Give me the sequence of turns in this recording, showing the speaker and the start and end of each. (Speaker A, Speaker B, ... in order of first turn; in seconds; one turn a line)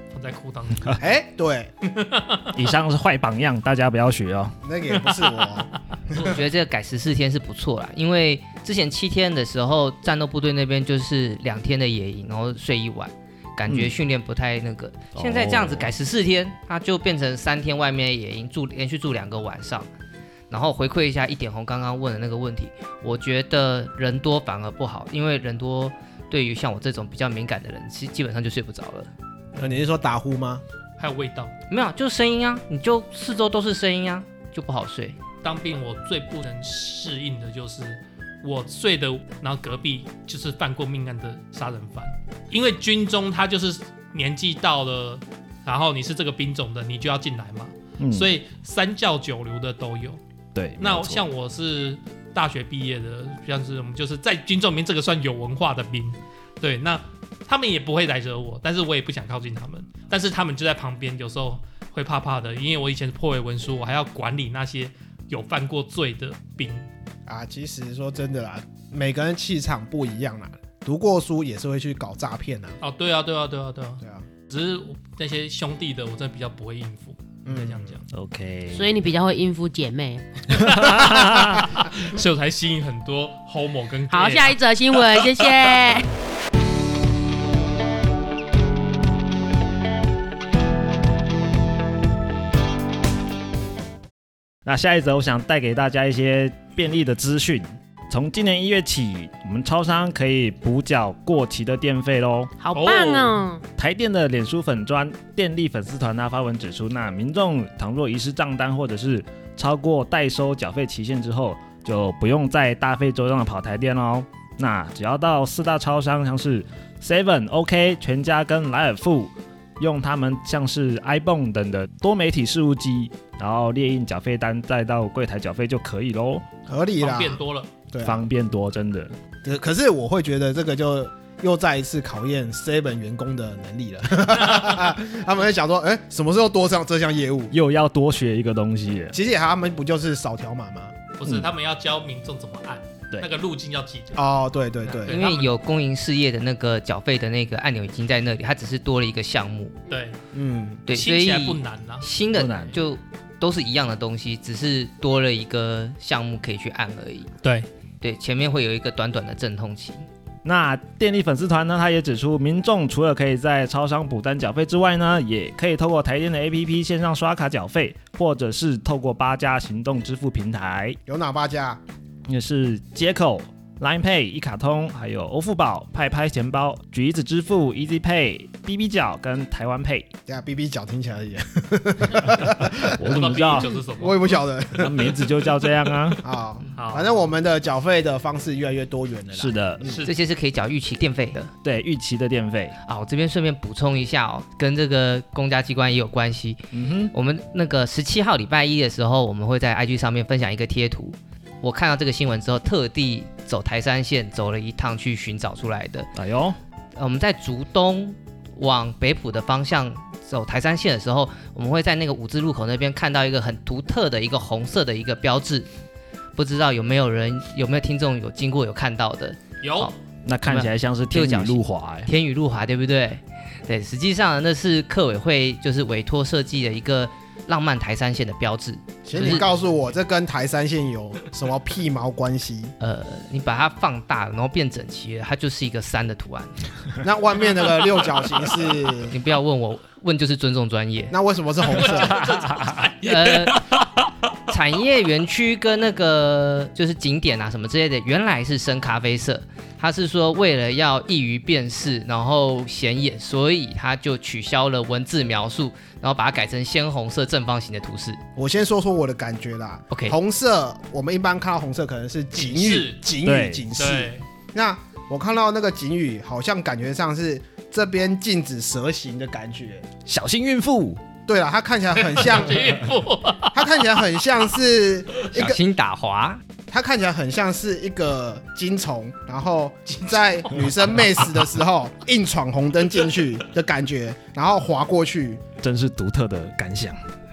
Speaker A: 0.1-1.1
Speaker B: 1.0-1.7
Speaker A: 1.8-2.5
Speaker C: 2.6-4.6
Speaker B: 4.6-6.4
Speaker A: 4.9-5.6
Speaker D: 6.2-19.9
Speaker C: 13.7-13.9
Speaker C: 15.1-15.9
Speaker D: 20.5-29.1
Speaker B: 29.6-30.6
Speaker A: 31.0-31.5
Speaker D: 31.7-35.2
Speaker A: 35.4-50.2
Speaker C: 48.0-48.3
Speaker C: 50.5-51.3
Speaker A: 50.8-66.9
Speaker B: 67.3-72.8
Speaker A: 72.8-78.0
Speaker B: 74.0-74.3
Speaker B: 77.5-78.0
Speaker C: 78.1-78.9
Speaker E: 78.7-80.5
Speaker C: 80.5-81.6
Speaker A: 80.5-85.5
Speaker B: 81.0-81.6
Speaker E: 84.1-86.1
Speaker C: 94.7-102.5
Speaker E: 102.6-103.6
Speaker A: 102.7-103.4
Speaker C: 103.8-126.5
Speaker B: 126.7-128.3
Speaker A: 127.0-127.7
Speaker C: 128.0-129.2
Speaker B: 129.4-137.5
Speaker A: 134.4-134.8
Speaker C: 137.5-139.2
Speaker B: 139.1-140.9
Speaker A: 141.2-144.2
Speaker B: 144.2-145.2
Speaker A: 144.8-145.5
Speaker D: 145.1-149.8
Speaker A: 149.9-150.2
Speaker B: 150.3-150.8
Speaker D: 150.9-157.3
Speaker A: 150.9-152.1
Speaker C: 152.3-152.8
Speaker D: 158.0-160.1
Speaker C: 160.4-171.0
Speaker B: 171.1-171.8
Speaker C: 172.3-180.1
Speaker B: 180.3-185.2
Speaker C: 183.0-183.7
Speaker A: 183.0-184.3
Speaker C: 184.8-186.2
Speaker B: 186.2-190.1
Speaker A: 186.8-187.2
Speaker C: 189.3-189.8
Speaker A: 189.8-190.1
Speaker D: 190.0-191.5
Speaker C: 191.6-192.8
Speaker D: 192.8-206.1
Speaker C: 196.7-197.1
Speaker C: 206.2-206.6
Speaker D: 206.9-215.7
Speaker D: 216.4-229.5
Speaker A: 219.6-219.9
Speaker C: 220.2-222.1
Speaker B: 229.1-232.7
Speaker A: 229.2-229.5
Speaker D: 232.8-236.5
Speaker B: 237.0-239.2
Speaker D: 239.1-241.1
Speaker B: 241.1-242.2
Speaker A: 241.7-243.8
Speaker D: 243.0-243.6
Speaker D: 244.5-258.2
Speaker B: 258.4-269.9
Speaker D: 259.9-260.2
Speaker A: 262.3-263.0
Speaker C: 263.2-263.7
Speaker A: 263.8-264.2
Speaker C: 270.1-271.0
Speaker B: 271.3-272.7
Speaker A: 271.9-273.6
Speaker B: 273.5-275.6
Speaker D: 275.4-276.4
Speaker B: 276.7-285.4
Speaker A: 279.9-281.3
Speaker C: 285.6-287.0